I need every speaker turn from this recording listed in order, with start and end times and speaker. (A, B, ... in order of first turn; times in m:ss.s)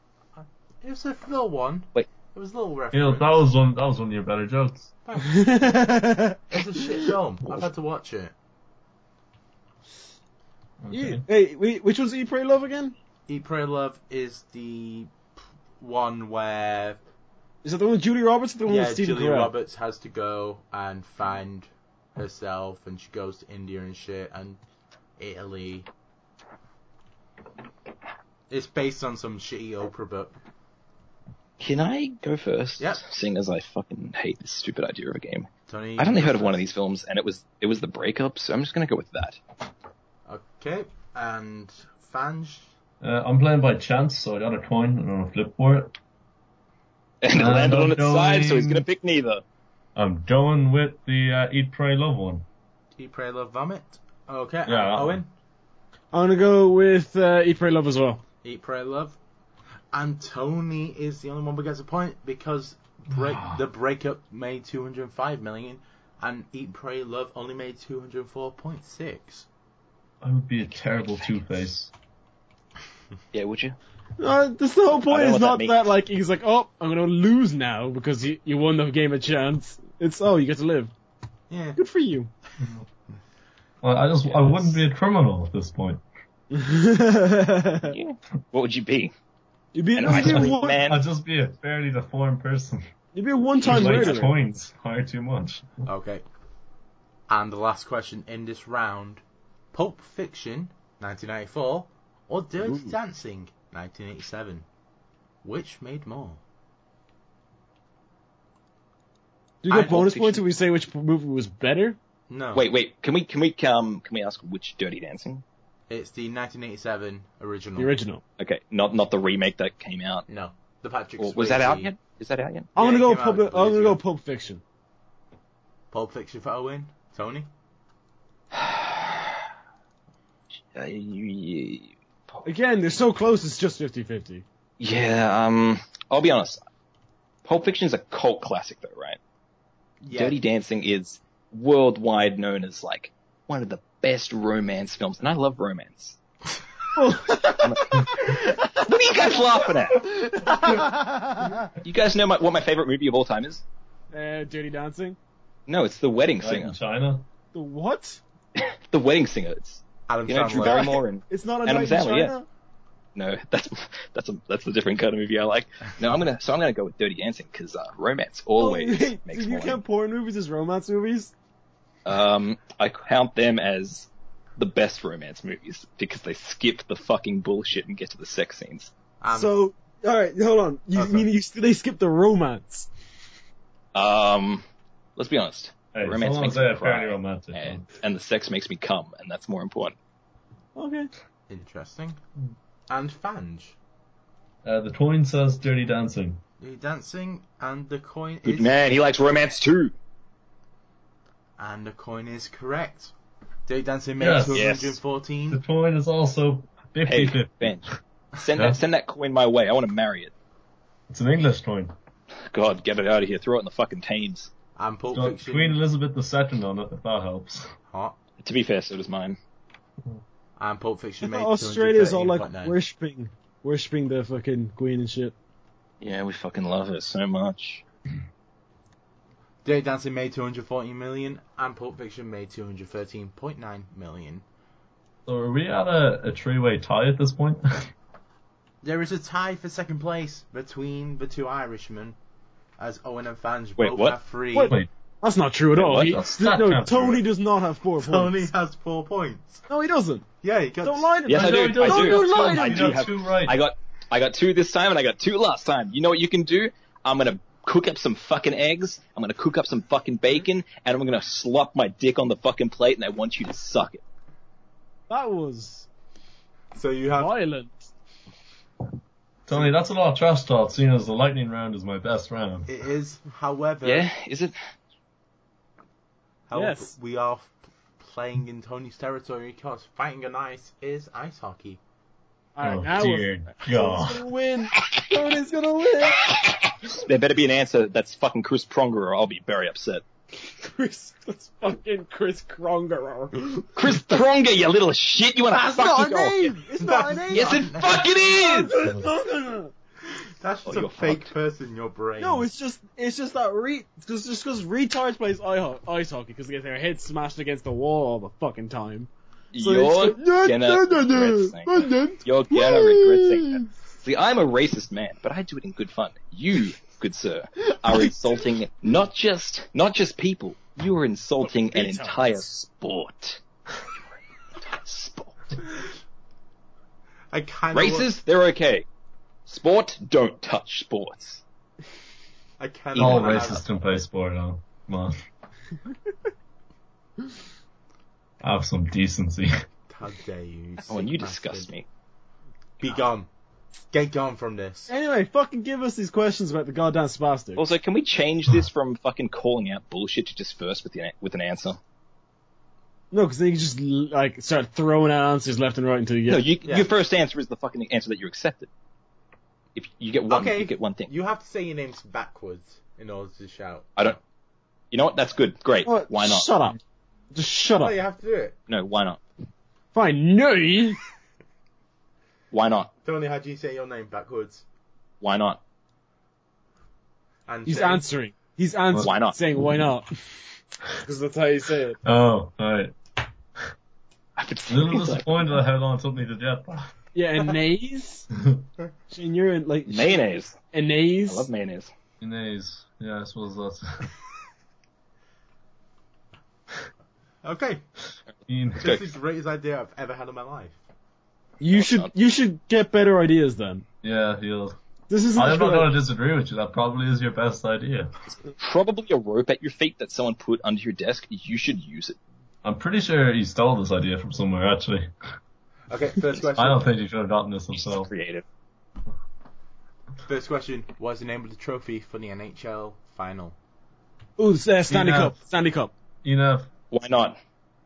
0:00.4-0:03.4 A
0:02.9-0:04.9 B
0:05.0-0:05.5 A
0:05.2-0:06.4 C
0:06.5-0:08.3 A
0:10.8-0:11.2 B
0:10.9-0:13.0 C
0:13.3-0:15.2 A
0:15.8-0:17.0 A
0:17.6-0:19.5 C
0:18.7-0:24.6 A
0:25.2-0:25.9 A
0:28.5-0:30.3 A
0:31.6-0:39.4 D
0:35.7-0:36.6 A
0:40.3-0:42.7 A
0:43.0-0:46.0 B
0:47.2-0:49.4 D
0:47.3-0:48.8 B
0:50.0-0:52.5 B
0:53.0-0:55.3 A
0:54.7-0:55.2 B
0:56.1-0:58.2 C
0:58.4-0:59.2 A
0:59.9-1:09.5 A
1:03.1-1:03.6 B
1:10.2-1:11.9 B
1:13.3-1:13.8 D
1:14.2-1:20.9 C
1:15.0-1:15.9 D
1:21.5-1:21.8 A
1:21.8-1:22.3 C
1:23.8-1:26.0 B
1:26.5-1:28.0 C
1:27.8-1:29.1 D
1:29.8-1:30.8 C
1:30.0-1:31.0 D
1:30.1-1:32.8 B
1:33.1-1:34.3 C
1:33.6-1:35.8 B
1:35.8-1:36.2 A
1:37.3-1:44.7 A
1:45.4-1:46.4 A
1:49.6-1:52.0 C
1:49.7-1:50.4 A
1:52.3-1:52.6 A
1:52.5-1:55.4 D
1:55.9-1:57.9 A
1:57.8-1:58.2 C
1:58.4-2:00.3 D
2:00.3-2:01.9 A
2:01.2-2:02.7 D
2:02.8-2:04.0 A
2:02.8-2:04.6 C
2:05.9-2:07.5 A
2:08.5-2:09.4 D
2:10.7-2:12.5 D
2:12.4-2:14.4 C
2:14.8-2:16.6 D
2:17.4-2:19.2 D
2:20.0-2:20.4 A
2:20.1-2:26.2 D
2:27.0-2:28.8 C
2:27.6-2:30.1 D
2:30.2-2:31.6 C
2:31.8-2:33.6 D
2:34.1-2:35.2 C
2:35.7-2:36.8 D
2:36.4-2:37.3 B
2:37.5-2:38.2 C
2:38.6-2:42.3 D
2:40.1-2:41.0 A
2:41.3-2:42.5 C
2:43.2-2:49.8 D
2:48.6-2:51.3 C
2:52.0-2:58.9 D
2:59.2-2:59.6 A
2:59.3-3:02.9 C
3:01.0-3:01.3 A
3:03.9-3:04.6 D
3:05.2-3:10.0 D
3:05.9-3:07.8 B
3:10.8-3:11.1 C
3:11.5-3:12.2 A
3:12.9-3:13.8 A
3:14.6-3:16.4 B
3:16.6-3:19.0 A
3:18.4-3:19.9 D
3:21.6-3:23.1 A
3:23.7-3:25.6 A
3:24.2-3:24.7 B
3:24.5-3:25.0 D
3:25.5-3:27.9 B
3:27.1-3:30.3 D
3:31.1-3:31.9 B
3:32.4-3:34.5 D
3:34.8-3:35.8 A
3:35.1-3:37.7 B
3:37.9-3:38.2 A
3:38.4-3:39.4 D
3:40.6-3:42.8 A
3:41.2-3:45.4 C
3:46.0-3:47.8 D
3:49.6-3:54.4 A
3:55.3-3:57.9 B
3:58.8-4:02.2 A
4:02.8-4:04.8 A
4:03.8-4:04.2 D
4:04.5-4:08.5 C
4:05.8-4:06.2 D
4:05.9-4:07.2 B
4:08.0-4:09.6 A
4:09.7-4:10.3 C
4:10.4-4:11.1 A
4:10.8-4:13.1 C
4:11.3-4:24.0 D
4:11.3-4:13.6 B
4:25.1-4:25.9 C
4:26.7-4:27.4 A
4:27.2-4:27.9 C
4:29.5-4:32.7 B
4:32.7-4:34.1 A
4:33.8-4:34.6 D
4:36.5-4:41.8 A
4:36.6-4:36.9 C
4:42.6-4:46.2 C
4:42.6-4:44.2 B
4:46.2-4:50.0 D
4:50.6-4:54.2 C
4:53.8-4:56.6 D
4:55.5-4:57.7 C
4:56.8-4:59.0 A
4:57.3-4:58.8 D
4:58.4-4:59.7 C
5:00.4-5:02.5 A
5:00.7-5:01.3 D
5:02.2-5:13.7 C
5:09.5-5:23.4 D
5:17.7-5:18.1 C
5:21.7-5:22.5 C
5:24.0-5:25.4 D
5:27.3-5:28.1 A
5:27.7-5:28.9 D
5:29.5-5:31.4 D
5:32.6-5:33.6 A
5:33.0-5:35.2 B
5:33.0-5:33.6 D
5:38.4-5:39.5 B
5:39.9-5:41.7 A
5:40.8-5:41.9 D
5:42.8-5:43.3 A
5:43.9-5:44.9 A
5:44.9-5:47.6 C
5:47.6-5:51.8 D
5:53.1-5:56.4 C
5:56.3-5:58.7 D
5:56.6-5:56.9 A
5:59.8-6:01.1 D
6:00.3-6:04.2 A
6:04.9-6:06.5 D
6:05.8-6:06.8 C
6:07.3-6:08.0 C
6:07.8-6:08.6 A
6:08.7-6:09.2 D
6:09.9-6:11.0 C
6:12.5-6:12.9 D
6:13.0-6:14.6 A
6:15.2-6:15.6 D
6:17.5-6:18.0 A
6:17.7-6:20.1 C
6:19.0-6:19.4 D
6:21.0-6:22.0 C
6:22.0-6:23.0 B
6:24.4-6:25.6 D
6:24.7-6:26.9 B
6:27.2-6:28.3 C
6:29.1-6:31.5 C
6:29.9-6:30.6 D
6:31.3-6:31.9 D
6:32.2-6:34.1 B
6:37.4-6:37.8 A
6:38.5-6:39.0 B
6:38.8-6:40.8 A
6:38.8-6:39.1 D
6:41.6-6:43.8 C
6:41.7-6:42.1 D
6:44.0-6:44.8 B
6:45.1-6:45.9 C
6:45.3-6:48.1 B
6:48.6-6:52.2 D
6:52.6-6:55.1 B
6:55.9-6:56.9 A
6:56.4-6:58.1 B
6:57.8-6:58.4 D
7:00.3-7:03.6 A
7:04.4-7:05.9 C
7:04.9-7:05.4 B
7:06.2-7:06.7 B
7:06.9-7:07.4 D